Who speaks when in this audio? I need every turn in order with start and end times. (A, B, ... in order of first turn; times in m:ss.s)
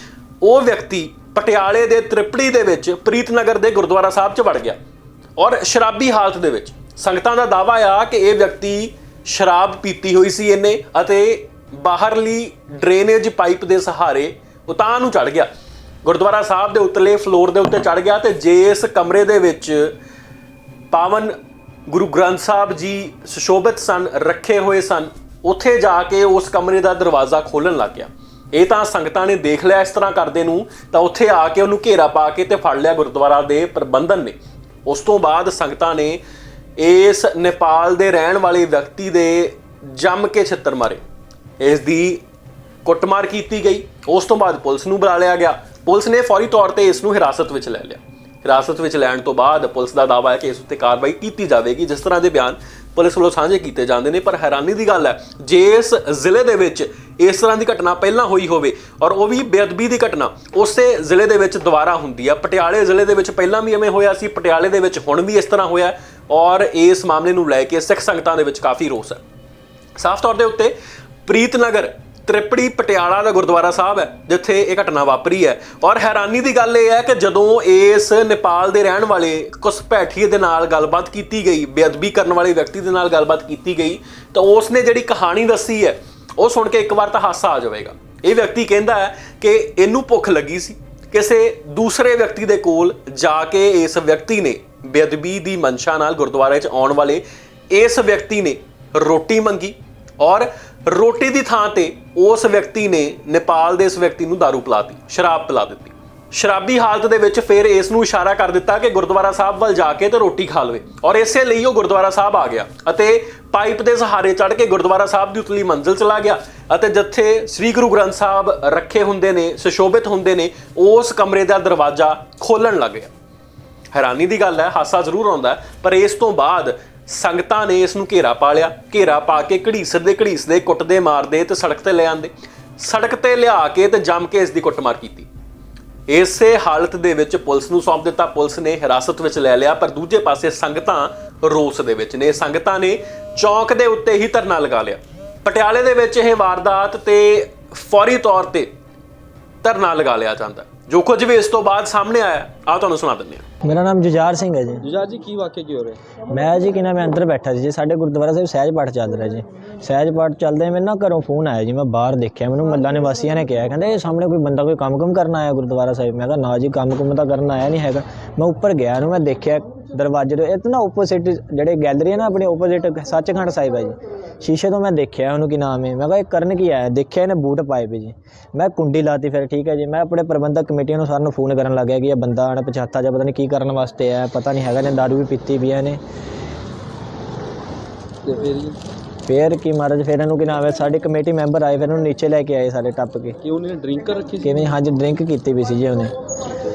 0:00.4-0:04.8 A
0:05.4-0:15.5 A
0:16.0-0:19.9 A
0:20.9-0:21.3 A
0:21.9-0:36.2 A
0:36.8-0:41.0 A
0:41.6-0:42.2 A
0:42.8-1:09.2 A
1:10.0-1:10.7 A
1:11.3-2:03.1 A
2:03.9-2:15.3 A
2:16.1-2:28.7 A
2:29.6-2:33.4 A
2:33.6-2:34.9 B
2:34.9-2:36.0 C
2:36.3-3:06.0 B
3:08.2-3:08.8 C
3:09.3-3:13.4 B
3:13.4-3:14.5 C
3:14.4-3:16.1 B